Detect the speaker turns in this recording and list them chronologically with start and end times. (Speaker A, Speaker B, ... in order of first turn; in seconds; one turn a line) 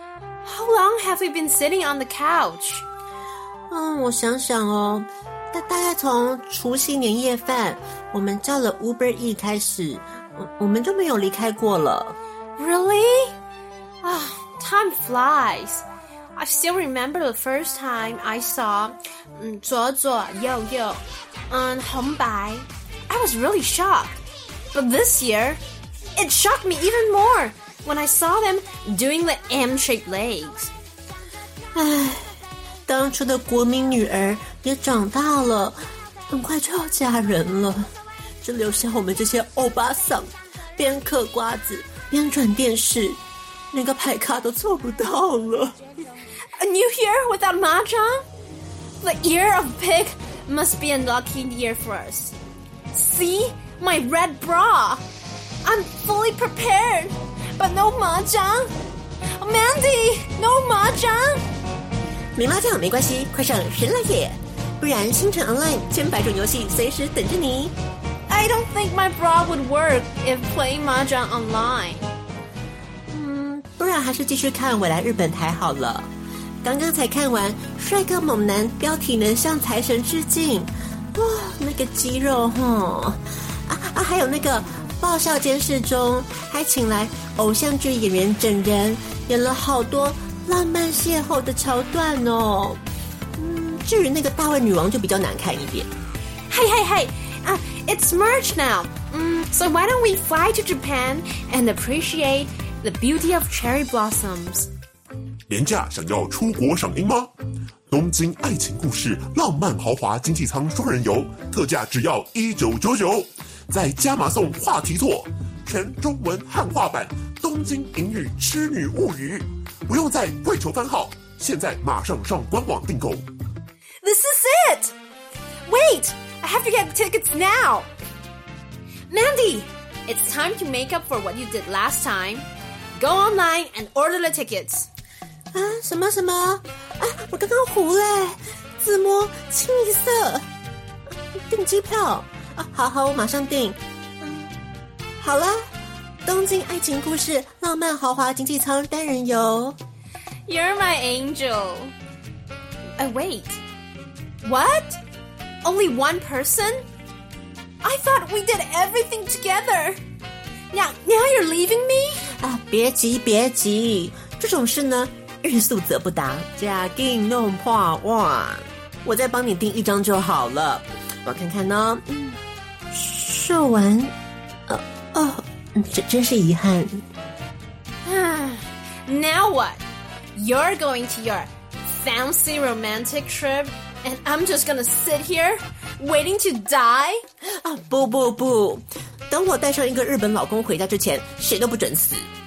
Speaker A: 0.4-2.8
Speaker B: 3.7-12.2
Speaker A: 12.6-13.3
Speaker A: 14.0-15.8
Speaker A: 16.4-24.2
Speaker A: 24.7-25.6
Speaker A: 26.1-30.7
Speaker B: 31.7-32.4
Speaker B: 32.9-35.8
Speaker B: 36.3-43.2
Speaker B: 43.7-45.8
Speaker A: 46.6-48.2
Speaker A: 49.0-52.3
Speaker A: 52.9-55.0
Speaker A: 55.6-58.7
Speaker A: 59.4-61.5
Speaker B: 62.3-67.8
Speaker A: 68.3-72.1
Speaker B: 73.1-76.1
Speaker B: 76.6-92.8
Speaker B: 93.3-95.9
Speaker A: 96.5-104.7
Speaker C: 105.5-107.3
Speaker C: 107.9-123.3
Speaker A: 124.0-124.9
Speaker A: 125.7-127.9
Speaker A: 129.1-132.4
Speaker A: 132.9-134.9
Speaker B: 135.5-140.4
Speaker B: 141.3-144.5
Speaker B: 145.2-145.7
Speaker B: 146.2-149.8
Speaker A: 150.5-151.9
Speaker A: 153.0-153.6
Speaker A: 154.4-155.0
Speaker A: 155.6-156.8
Speaker A: 157.8-160.0
Speaker A: 160.7-162.3
Speaker B: 162.3-172.2
Speaker B: 172.9-174.1
Speaker B: 174.7-177.1
Speaker A: 178.0-179.8
Speaker A: 180.3-187.2
Speaker B: 187.4-192.3